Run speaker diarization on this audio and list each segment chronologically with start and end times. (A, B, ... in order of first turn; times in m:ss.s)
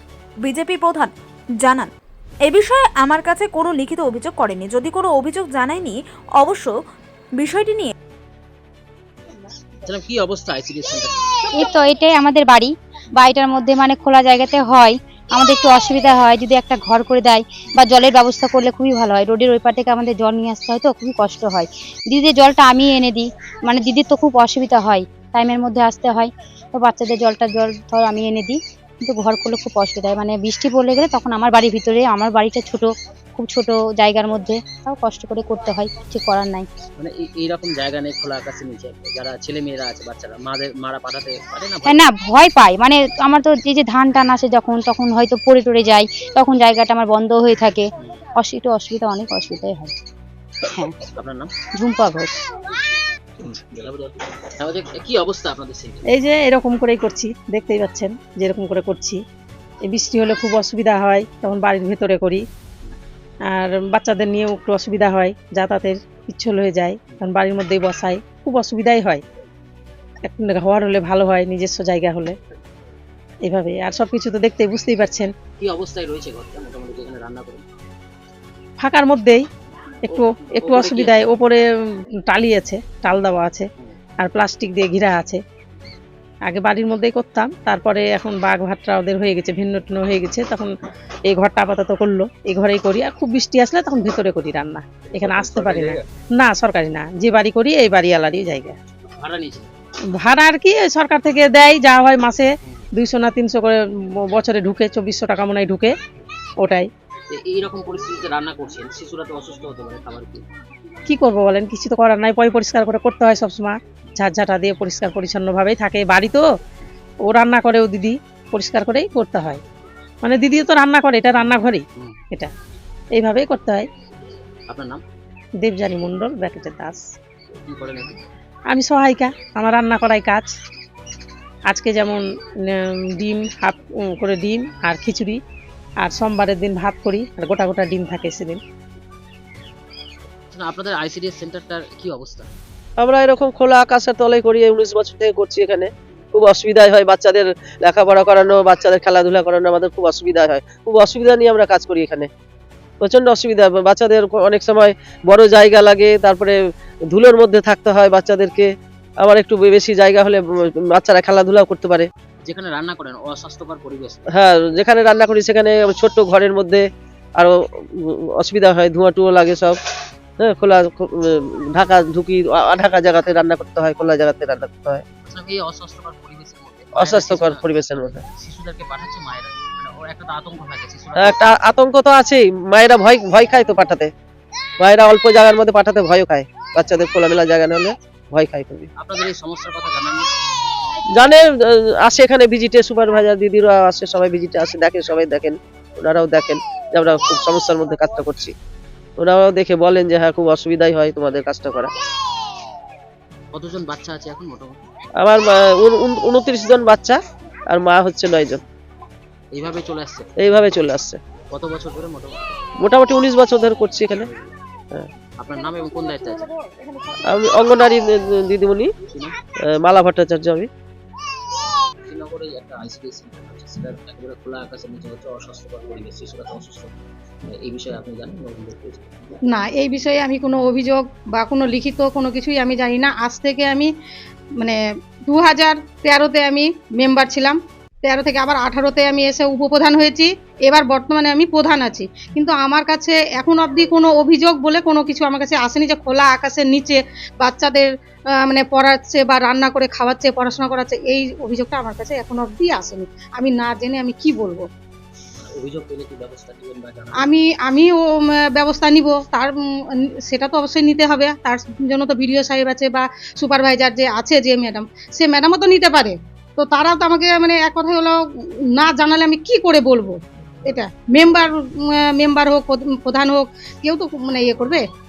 0:00.4-0:01.9 A
0:02.5-0:06.7 A
0:07.4-0:07.9 A
0:09.8-0:11.1 B
0:11.6-0:36.7 C
0:37.0-0:42.0 B
0:41.8-0:49.9 C
0:51.2-0:51.5 B
0:51.8-0:52.4 C
0:53.4-0:56.0 B
0:56.1-0:59.2 D
0:59.8-1:02.4 D
1:03.5-1:09.2 D
1:10.2-1:12.4 D
1:13.4-1:15.3 D
1:15.6-1:17.6 B
1:18.8-1:19.5 D
1:20.0-1:21.7 D
1:20.1-1:21.3 B
1:22.2-1:23.7 D
1:24.2-1:25.4 D
1:26.5-1:30.7 D
1:31.3-1:38.8 D
1:39.1-1:39.7 B
1:40.1-1:45.9 D
1:46.6-1:46.9 D
1:47.3-1:50.4 B
1:51.1-1:56.4 D
1:57.2-1:59.6 D
2:00.2-2:02.5 D
2:03.1-2:03.9 D
2:04.7-2:05.0 B
2:05.6-2:07.0 D
2:07.7-2:08.2 B
2:08.7-2:10.5 D
2:11.7-2:15.4 D
2:16.0-2:18.6 D
2:20.5-2:22.5 B
2:23.0-2:32.3 E
2:33.0-2:36.5 E
2:37.1-2:42.1 E
2:42.4-2:44.3 B
2:44.3-2:46.8 E
2:47.4-2:49.8 E
2:50.4-2:55.0 E
2:55.2-3:01.6 B
2:56.9-2:58.2 E
3:01.2-3:04.1 E
3:04.8-3:08.9 E
3:09.0-3:10.3 B
3:11.1-3:18.5 E
3:19.2-3:21.9 E
3:23.5-3:24.8 B
3:25.2-3:28.6 E
3:29.5-3:30.3 B
3:30.4-3:31.2 E
3:31.5-3:32.5 B
3:32.8-3:34.3 E
3:34.2-3:34.5 B
3:35.4-3:36.5 B
3:37.3-3:38.9 E
3:39.1-3:39.3 B
3:39.7-3:40.7 E
3:42.0-3:46.9 B
3:47.5-3:49.1 B
3:49.5-3:53.9 F
3:54.6-4:14.6 F
4:15.4-4:17.3 B
4:17.2-4:34.8 F